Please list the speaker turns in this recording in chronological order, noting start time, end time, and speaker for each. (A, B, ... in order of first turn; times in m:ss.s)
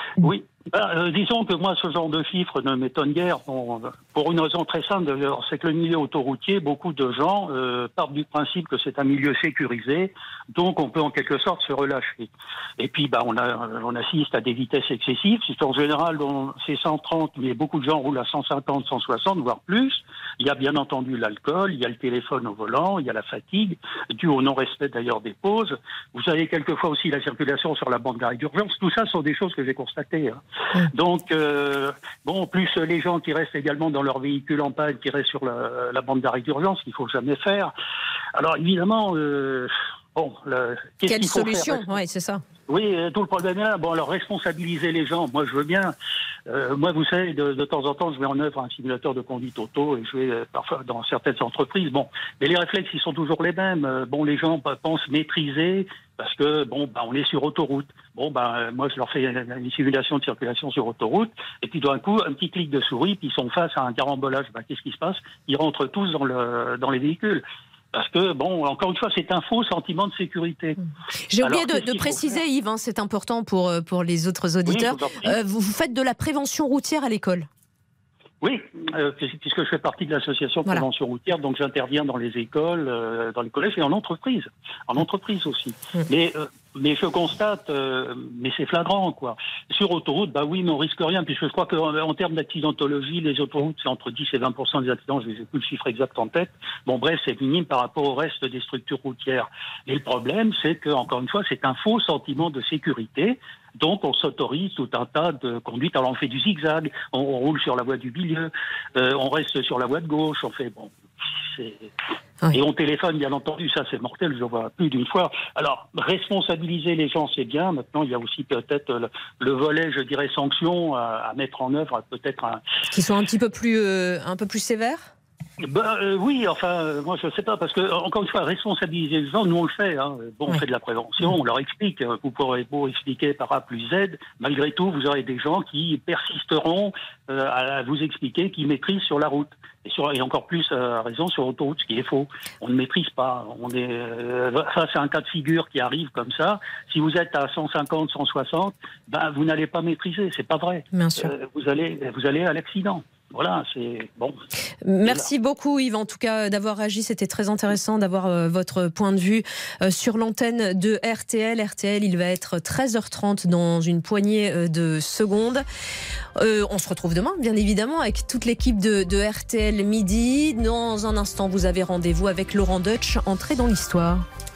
0:00.2-0:30.4 A
0:30.9-0:37.7 A
0:38.4-0:41.9 A
0:41.1-0:42.4 B
0:42.7-0:45.9 A
0:46.5-1:10.8 A
1:11.3-1:17.5 B
1:11.4-1:12.3 A
1:14.7-1:15.3 A
1:18.4-1:50.9 A
1:51.5-1:51.9 A
1:52.5-2:02.6 A
2:02.9-2:05.1 B
2:05.6-2:34.4 A
2:30.9-2:31.3 B
2:34.8-2:45.6 B
2:46.4-2:54.2 B